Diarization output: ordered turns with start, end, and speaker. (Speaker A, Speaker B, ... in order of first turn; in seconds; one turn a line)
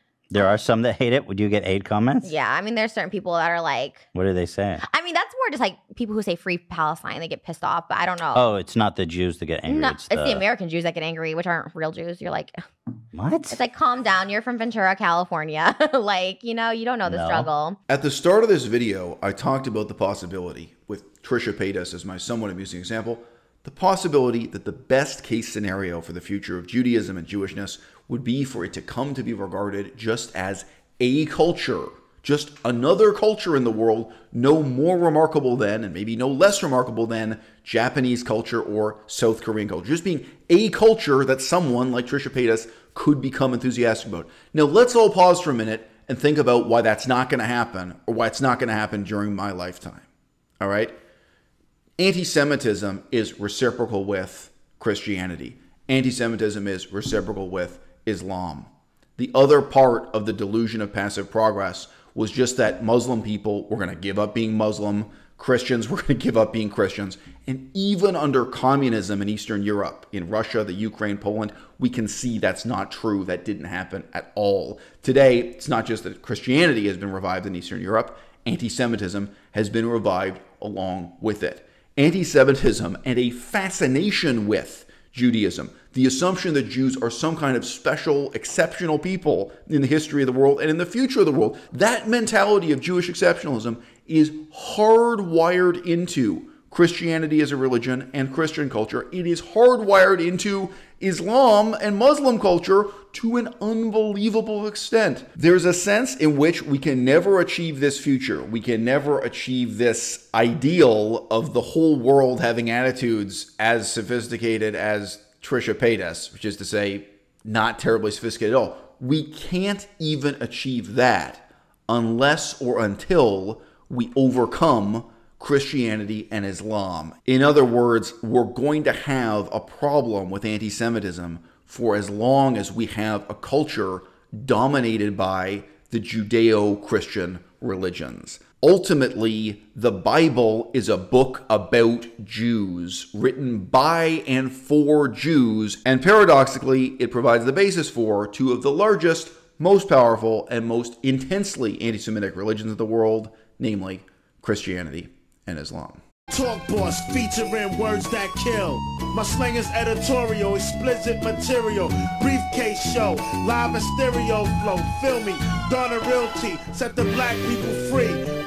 Speaker A: 0.3-2.3
Speaker B: 2.2-4.1
Speaker A: 4.1-4.8
Speaker B: 4.8-8.4
Speaker A: 8.3-10.5
Speaker B: 9.7-12.6
Speaker A: 13.1-13.6
Speaker B: 13.5-17.8
Speaker A: 17.1-17.5
Speaker C: 17.9-50.1
Speaker C: 50.6-51.0
Speaker C: 52.0-156.0
Speaker D: 156.3-168.2